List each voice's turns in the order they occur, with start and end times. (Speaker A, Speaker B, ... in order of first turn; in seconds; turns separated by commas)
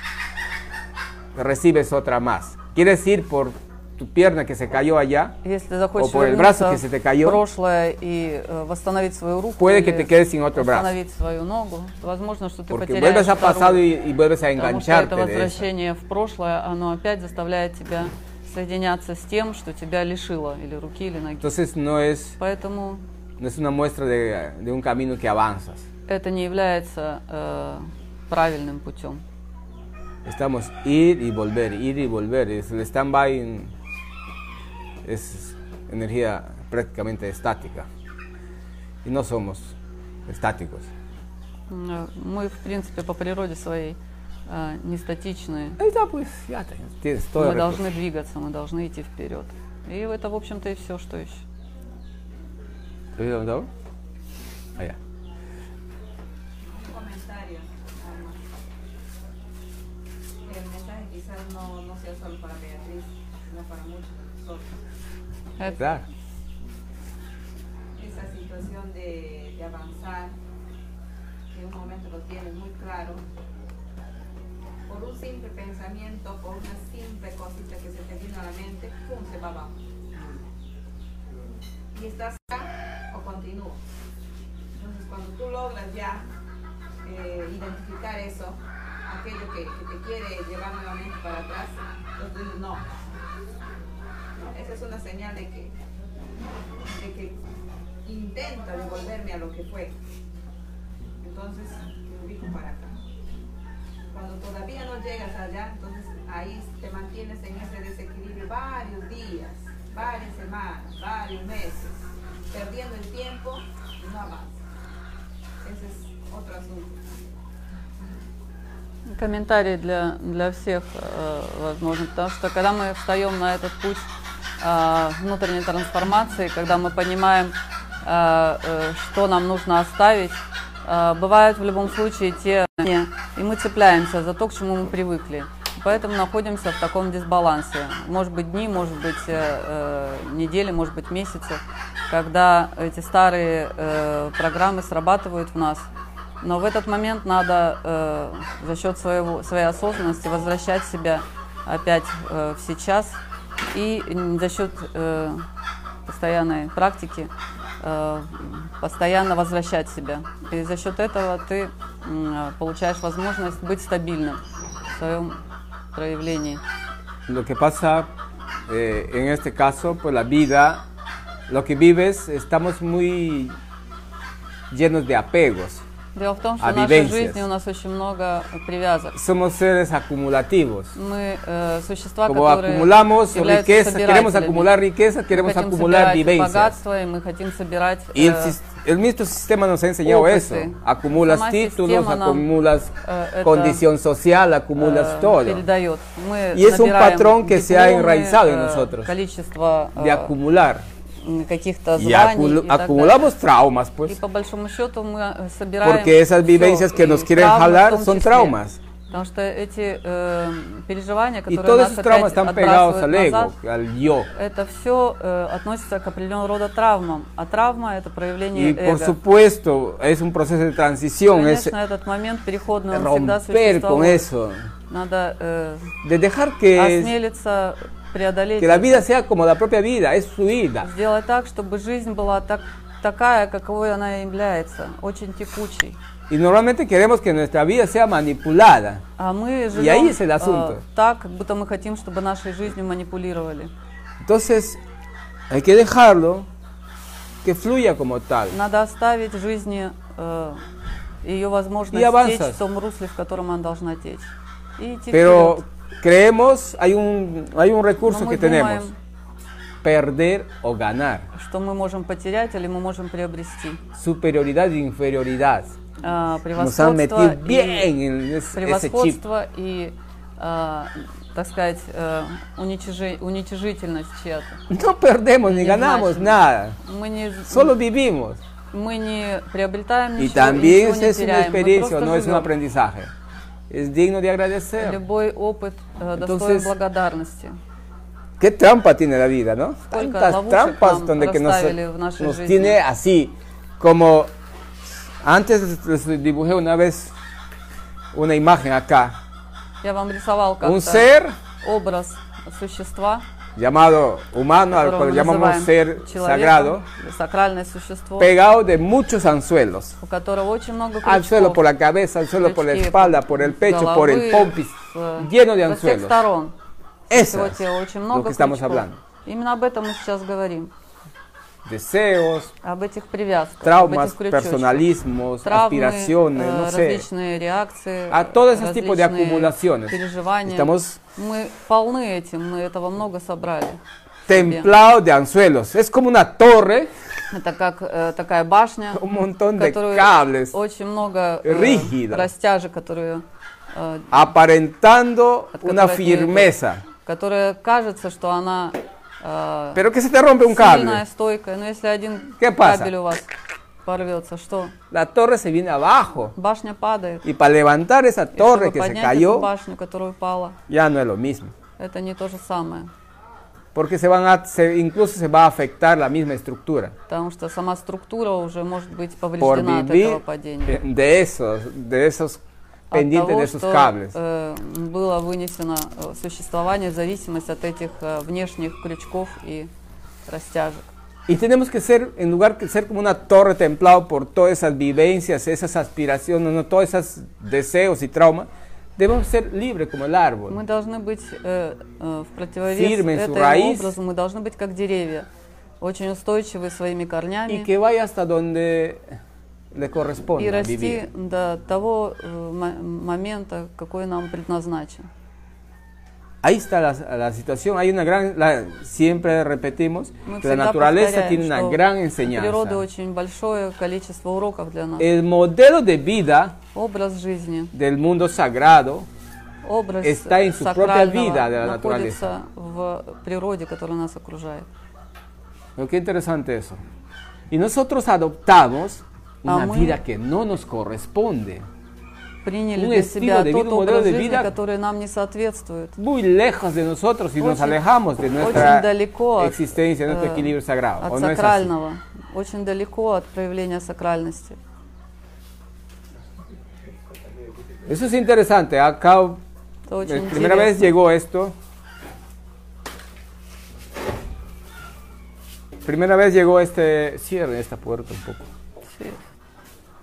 Speaker A: 1.3-5.3, Speaker B: 5.4-13.8, Speaker A: 6.0-7.4, Speaker A: 9.6-10.9, Speaker A: 12.7-15.6, Speaker B: 14.6-21.6, Speaker A: 21.4-22.4, Speaker B: 22.4-23.0, Speaker A: 23.4-25.9, Speaker B: 26.1-29.2, Speaker A: 30.2-33.7, Speaker A: 35.0-37.9, Speaker A: 39.0-39.7, Speaker A: 40.3-40.9, Speaker B: 41.7-45.8, Speaker A: 45.8-47.8, Speaker B: 47.4-51.4, Speaker A: 53.2-53.7, Speaker C: 56.6-58.4, Speaker C: 60.4-64.8, Speaker B: 65.6-65.9, Speaker A: 65.8-66.0, Speaker C: 68.0-70.4, Speaker C: 71.5-73.2, Speaker C: 74.9-79.7, Speaker C: 81.9-83.8, Speaker C: 84.7-86.2, Speaker C: 87.0-92.8, Speaker C: 94.3-95.7, Speaker C: 96.9-97.4, Speaker C: 98.0-99.9, Speaker C: 101.2-103.0, Speaker C: 104.1-112.0, Speaker C: 112.5-114.6, Speaker C: 115.6-117.2, Speaker B: 119.1-124.1, Speaker B: 124.6-145.9, Speaker B: 146.4-153.2, Speaker B: 153.7-155.4, Speaker B: 156.1-164.4, Speaker B: 164.9-165.4, Speaker B: 165.9-166.6, Speaker A: 167.3-168.1, Speaker A: 168.7-170.8, Speaker A: 171.5-173.6, Speaker A: 174.7-175.8, Speaker B: 176.1-179.1, Speaker A: 176.6-177.4, Speaker A: 179.1-180.9, Speaker B: 180.9-184.7, Speaker A: 182.3-186.8, Speaker B: 185.3-188.6, Speaker A: 188.1-195.6, Speaker B: 190.1-192.5, Speaker B: 193.0-193.8, Speaker B: 194.8-200.3, Speaker A: 196.5-199.1, Speaker A: 199.9-200.8, Speaker B: 201.2-203.3, Speaker A: 202.0-204.2, Speaker B: 204.1-208.6, Speaker A: 205.8-208.8, Speaker B: 209.1-213.5, Speaker A: 211.5-214.3, Speaker B: 214.3-219.2, Speaker A: 218.5-221.7, Speaker B: 221.3-224.2, Speaker A: 222.9-224.7, Speaker B: 224.9-225.9, Speaker A: 226.0-227.1, Speaker B: 226.7-229.0, Speaker A: 228.6-230.9, Speaker B: 230.8-236.0, Speaker A: 236.3-239.0, Speaker B: 239.2-243.7, Speaker A: 239.7-240.8, Speaker A: 244.2-244.8, Speaker A: 245.5-246.5, Speaker A: 247.4-248.6, Speaker B: 248.5-250.6, Speaker B: 251.2-255.6, Speaker A: 251.9-252.6, Speaker A: 255.1-258.9, Speaker B: 258.0-258.9, Speaker A: 259.8-261.3, Speaker B: 261.3-263.8, Speaker A: 263.9-265.8, Speaker B: 266.0-267.9, Speaker A: 266.6-269.2, Speaker B: 268.5-274.6, Speaker A: 274.7-276.8, Speaker B: 275.4-277.7, Speaker A: 277.5-278.4, Speaker B: 278.7-282.5, Speaker A: 280.2-283.1, Speaker A: 283.7-285.0, Speaker B: 284.8-287.6, Speaker A: 286.2-286.7, Speaker A: 288.4-294.3, Speaker B: 289.9-292.8, Speaker A: 295.2-297.1, Speaker A: 298.1-299.2, Speaker B: 299.8-301.1, Speaker A: 300.6-301.3, Speaker B: 301.6-303.2, Speaker A: 303.6-306.8, Speaker B: 304.7-308.3, Speaker A: 308.2-310.0, Speaker B: 310.0-311.6, Speaker A: 311.0-316.1, Speaker B: 312.4-316.5, Speaker B: 317.1-320.7, Speaker A: 317.1-317.6, Speaker A: 318.1-319.0, Speaker A: 321.6-322.5, Speaker B: 322.6-324.9, Speaker A: 323.6-327.0, Speaker B: 325.4-334.7, Speaker A: 328.1-331.0, Speaker A: 334.3-336.9, Speaker B: 337.3-339.0, Speaker A: 338.9-340.5, Speaker B: 339.6-344.3, Speaker A: 341.4-342.3, Speaker A: 344.1-346.8, Speaker B: 345.6-349.8, Speaker A: 349.7-351.0, Speaker B: 350.5-353.3, Speaker A: 352.4-352.9, Speaker B: 353.8-354.7, Speaker A: 354.9-356.3, Speaker B: 356.4-357.2, Speaker A: 357.2-359.5, Speaker B: 358.3-360.6, Speaker A: 360.7-361.5, Speaker B: 361.8-362.9, Speaker A: 363.7-366.9, Speaker B: 367.1-370.8, Speaker A: 369.4-372.4, Speaker B: 372.9-379.7, Speaker A: 372.9-374.1, Speaker B: 380.3-380.8, Speaker A: 381.3-390.6, Speaker B: 390.5-395.3, Speaker A: 392.7-393.9, Speaker B: 395.8-397.7, Speaker A: 397.5-399.0, Speaker A: 399.7-401.0, Speaker B: 400.4-405.1, Speaker A: 406.4-412.8, Speaker B: 410.2-415.1, Speaker A: 415.0-416.6, Speaker B: 416.7-417.7, Speaker A: 417.7-419.1, Speaker B: 419.6-424.7, Speaker A: 420.0-422.3, Speaker A: 425.8-426.8, Speaker A: 427.5-431.6, Speaker B: 429.4-430.0, Speaker B: 432.4-435.9, Speaker A: 432.8-434.5, Speaker A: 436.0-441.7, Speaker B: 437.4-437.8, Speaker B: 438.4-444.6, Speaker A: 447.9-449.4, Speaker B: 449.9-450.9, Speaker A: 450.0-451.5, Speaker A: 455.8-458.4, Speaker B: 458.9-459.2